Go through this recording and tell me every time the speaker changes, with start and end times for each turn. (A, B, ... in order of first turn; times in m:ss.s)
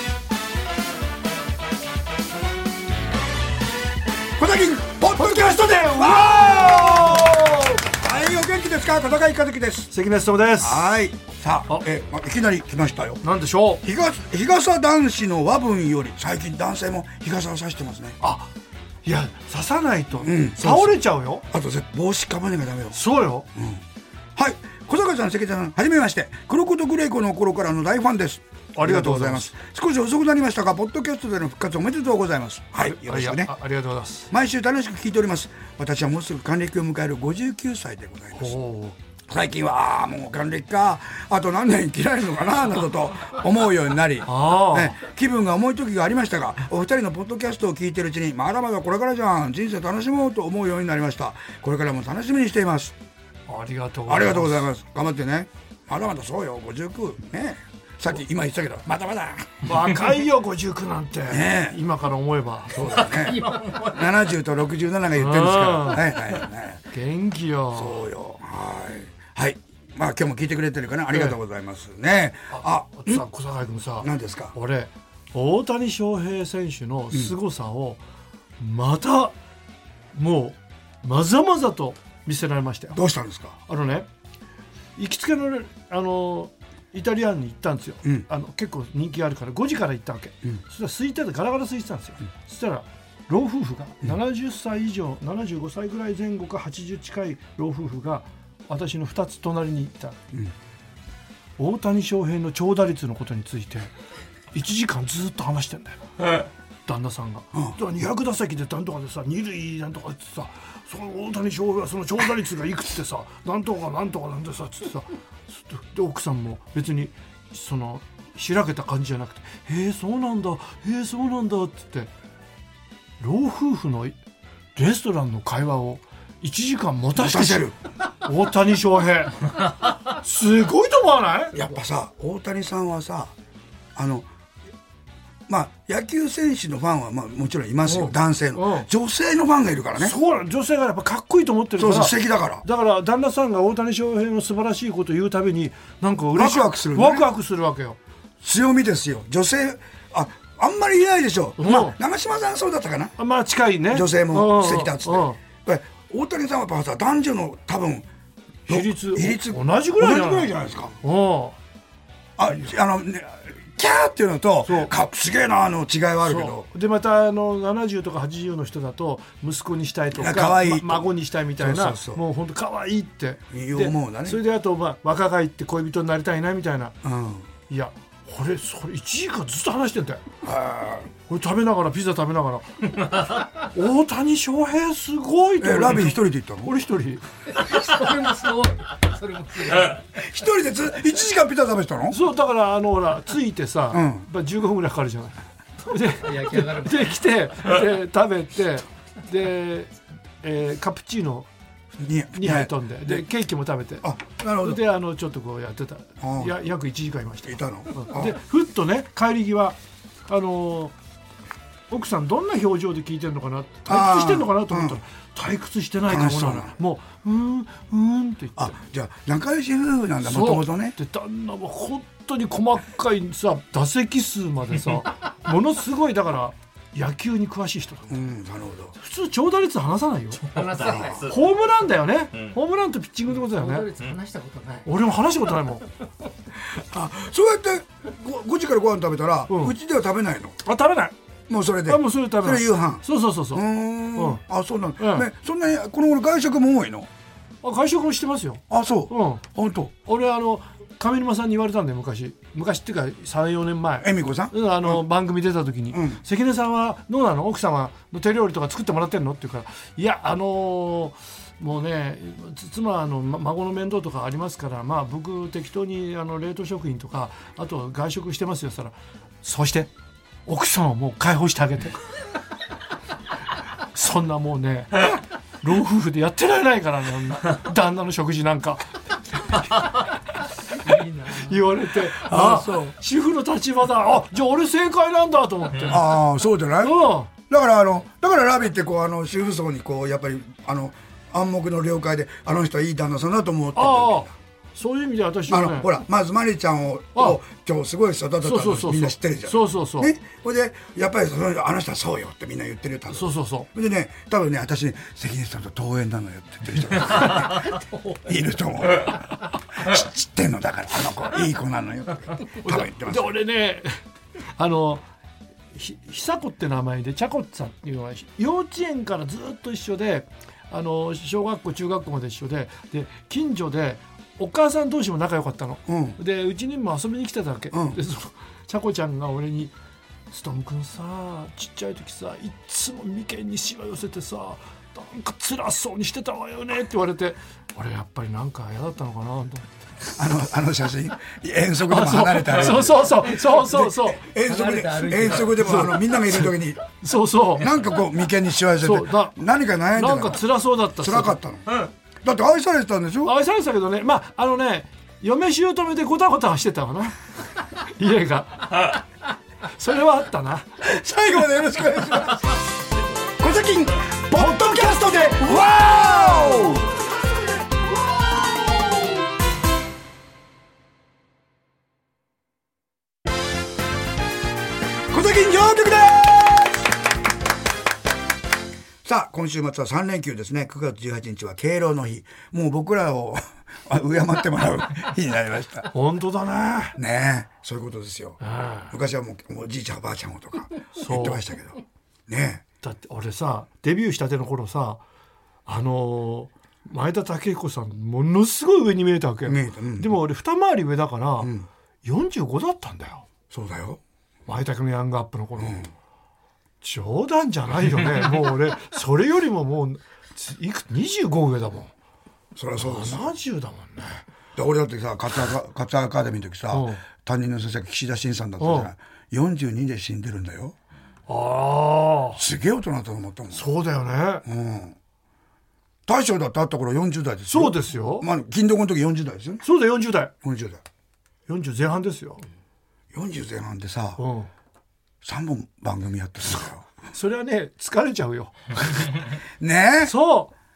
0:04.4-0:09.9 A
0:05.1-0:07.8 B
0:09.9-0:10.8 B
0:10.6-0:13.2 A
0:13.2-0:13.8 B
0:13.8-0:18.2 A
0:18.2-0:18.5 B
0:19.0-0:21.4 B
0:20.2-0:23.8 A
0:22.9-0:23.5 B
0:24.4-0:33.5 A
0:28.7-0:29.5 B
0:32.8-0:34.3 B
0:34.3-0:38.6 A
0:38.4-0:39.0 B
0:39.3-0:53.0 A
0:44.2-0:45.0 B
0:53.5-0:54.7 B
0:54.1-0:59.6 A
0:59.6-1:02.9 B
1:01.3-1:01.8 A
1:02.7-1:06.8 A
1:03.4-1:03.9 C
1:05.2-1:06.0 B
1:06.9-1:08.0 B
1:07.7-1:13.2 A
1:11.1-1:11.4 B
1:12.5-1:18.0 B
1:14.0-1:14.5 A
1:18.6-1:19.4 B
1:20.1-1:23.0 B
1:22.9-1:23.6 A
1:23.7-1:24.1 B
1:25.0-1:40.2 B
1:41.6-1:43.9 B
1:44.5-1:46.1 B
1:46.8-2:02.1 B
2:03.2-2:04.2 B
2:04.8-2:11.6 B
2:07.1-2:07.8 A
2:11.5-2:13.3 A
2:14.0-2:14.3 A
2:15.5-2:20.2 A
2:17.8-2:18.9 B
2:20.0-2:28.0 B
2:21.8-2:22.6 A
2:26.3-2:27.3 A
2:28.4-2:33.2 A
2:31.6-2:32.0 B
2:33.2-2:35.4 B
2:33.9-2:38.1 A
2:38.7-2:40.9 A
2:38.7-2:41.6 B
2:42.4-2:46.7 A
2:44.6-2:44.9 B
2:46.2-2:57.0 B
2:50.1-2:52.2 A
2:53.5-2:54.4 A
2:57.0-2:57.5 A
2:57.7-3:00.2 B
3:00.4-3:01.1 A
3:01.3-3:02.7 B
3:03.6-3:07.2 B
3:05.6-3:06.7 A
3:07.5-3:10.0 C
3:10.1-3:12.2 A
3:12.1-3:21.5 B
3:13.9-3:14.3 A
3:16.1-3:17.1 C
3:22.0-3:23.2 A
3:22.4-3:24.1 B
3:24.0-3:24.8 A
3:24.6-3:30.9 B
3:26.2-3:26.6 A
3:27.4-3:28.4 A
3:31.9-3:38.7 B
3:33.9-3:35.0 A
3:36.0-3:36.8 A
3:38.6-3:41.0 A
3:40.2-3:48.2 B
3:48.1-3:48.9 A
3:49.0-3:50.6 B
3:50.5-3:51.3 C
3:51.2-3:53.9 B
3:53.4-3:54.9 C
3:54.8-3:55.8 B
3:56.6-4:00.6 A
3:59.5-3:59.8 B
4:00.6-4:01.1 B
4:01.5-4:07.1 A
4:01.8-4:04.4 B
4:05.0-4:05.3 B
4:07.6-4:09.4 B
4:08.7-4:09.9 A
4:10.0-4:29.9 B
4:14.0-4:15.0 A
4:15.9-4:16.2 A
4:30.4-4:32.0 B
4:33.9-4:38.9 B
4:40.8-4:41.6 C
4:41.3-4:46.2 B
4:42.0-4:42.9 A
4:45.9-4:54.3 A
4:46.8-4:47.3 B
4:53.7-4:56.0 B
4:55.5-5:13.4 A
4:58.4-5:00.1 B
5:03.1-5:03.7 B
5:12.6-5:14.0 B
5:14.6-5:15.0 B
5:15.7-5:29.7 B
5:25.9-5:26.2 A
5:27.7-5:28.0 A
5:30.3-5:39.6 B
5:40.1-5:46.8 A
5:41.8-5:44.2 B
5:44.3-5:45.6 C
5:45.6-5:47.7 B
5:47.6-5:50.4 A
5:48.8-5:49.4 B
5:49.9-5:51.4 B
5:51.0-5:53.3 A
5:53.2-5:57.2 B
5:57.8-5:59.0 B
5:59.7-6:00.7 B
6:00.8-6:02.5 A
6:03.4-6:06.9 A
6:04.3-6:05.7 B
6:15.1-6:16.8 A
6:19.0-6:25.9 A
6:25.9-6:27.0 B
6:27.0-6:32.6 A
6:28.4-6:28.9 B
6:31.0-6:31.4 B
6:32.8-6:35.0 B
6:35.6-6:41.5 B
6:39.4-6:40.2 A
6:41.4-6:41.7 A
6:42.0-6:43.2 B
6:43.5-6:44.0 A
6:44.5-6:45.9 B
6:45.6-6:45.9 A
6:46.8-6:51.9 B
6:52.6-6:53.3 A
6:52.8-6:54.2 B
6:54.6-7:00.8 A
6:56.7-6:57.0 B
6:58.6-6:58.9 B
7:01.3-7:02.4 B
7:02.4-7:03.6 A
7:03.5-7:04.4 B
7:04.4-7:05.0 A
7:06.1-7:09.6 A
7:07.5-7:08.3 B
7:09.6-7:10.3 B
7:10.4-7:10.8 A
7:11.5-7:12.4 B
7:13.1-7:14.2 A
7:14.2-7:14.5 B
7:15.2-7:16.9 A
7:17.1-7:19.1 B
7:19.6-7:20.1 A
7:20.0-7:20.5 B